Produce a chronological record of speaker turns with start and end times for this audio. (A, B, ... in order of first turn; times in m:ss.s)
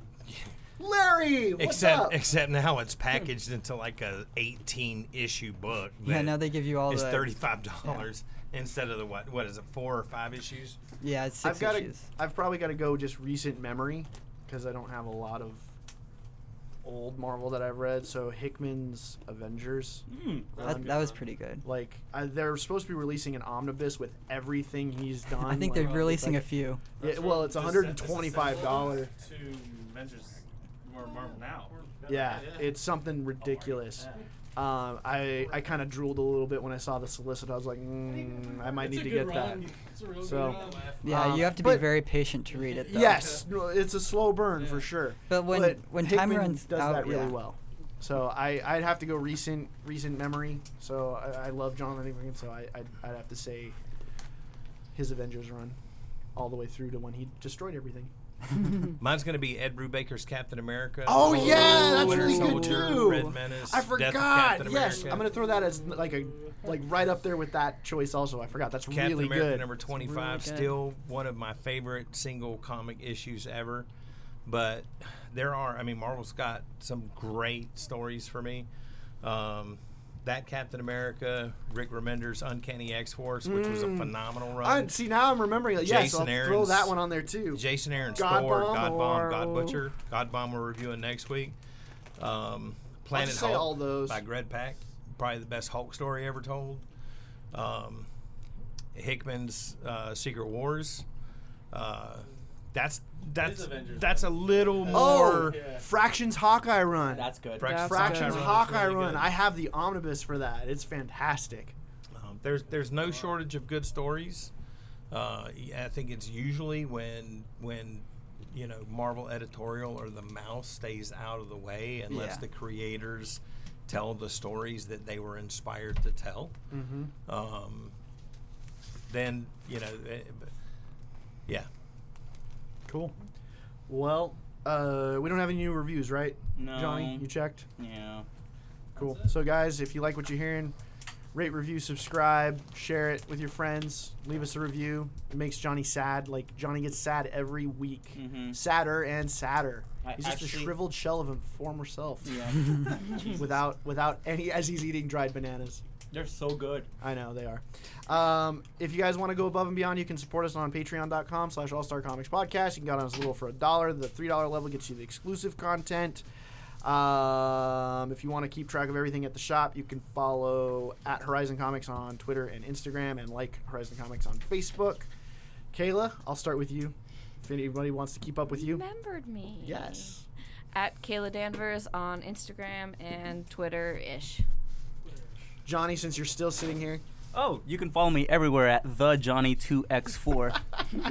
0:00.3-0:00.5 A
0:00.8-0:02.2 B
0:01.6-0:10.8 A
0:06.0-0:08.1 C
0:11.0-0:12.0 C
0:11.4-0:15.7 B
0:16.8-0:21.0 B
0:20.1-0:20.6 D
0:20.6-0:21.2 E
0:20.6-0:21.7 C
0:21.6-0:29.1 B
0:25.4-0:26.8 C
0:25.7-0:26.2 E
0:27.0-0:32.8 E
0:32.1-0:42.0 B
0:33.4-0:34.3 E
0:38.1-0:41.8 E
0:41.0-0:43.4 C
0:42.5-0:43.4 E
0:42.9-0:53.8 B
0:44.6-0:44.9 E
0:45.3-0:47.4 C
0:54.9-0:55.8 B
0:56.4-0:58.1 B
0:59.0-1:05.3 A
1:01.1-1:09.7 B
1:08.9-1:13.9 A
1:09.9-1:10.7 F
1:14.5-1:18.7 A
1:19.2-1:24.9 A
1:23.4-1:29.5 B
1:25.8-1:27.0 A
1:27.5-1:31.6 A
1:32.2-1:36.9 A
1:33.1-1:34.2 B
1:37.5-1:38.1 A
1:38.9-1:41.0 A
1:41.7-1:45.6 A
1:43.4-1:45.9 E
1:44.9-1:51.8 B
1:47.0-1:47.9 D
1:47.6-1:49.3 A
1:47.6-1:48.5 F
1:52.1-1:54.5 A
1:52.8-1:53.4 E
1:55.1-2:06.6 A
2:02.1-2:02.4 C
2:06.7-2:07.1 B
2:07.3-2:07.9 A
2:09.1-2:10.5 A
2:12.9-2:13.2 B
2:13.9-2:17.7 B
2:16.6-2:18.3 D
2:19.0-2:19.4 E
2:19.0-2:20.8 B
2:21.3-2:32.4 B
2:28.2-2:28.6 D
2:30.0-2:30.8 D
2:32.2-2:33.6 D
2:33.2-2:35.8 B
2:36.1-2:36.9 D
2:37.0-2:46.2 B
2:46.8-2:55.1 B
2:55.7-2:58.8 B
2:58.5-3:00.1 F
2:59.6-3:00.2 B
3:00.7-3:04.4 F
3:05.6-3:07.0 B
3:07.3-3:10.6 D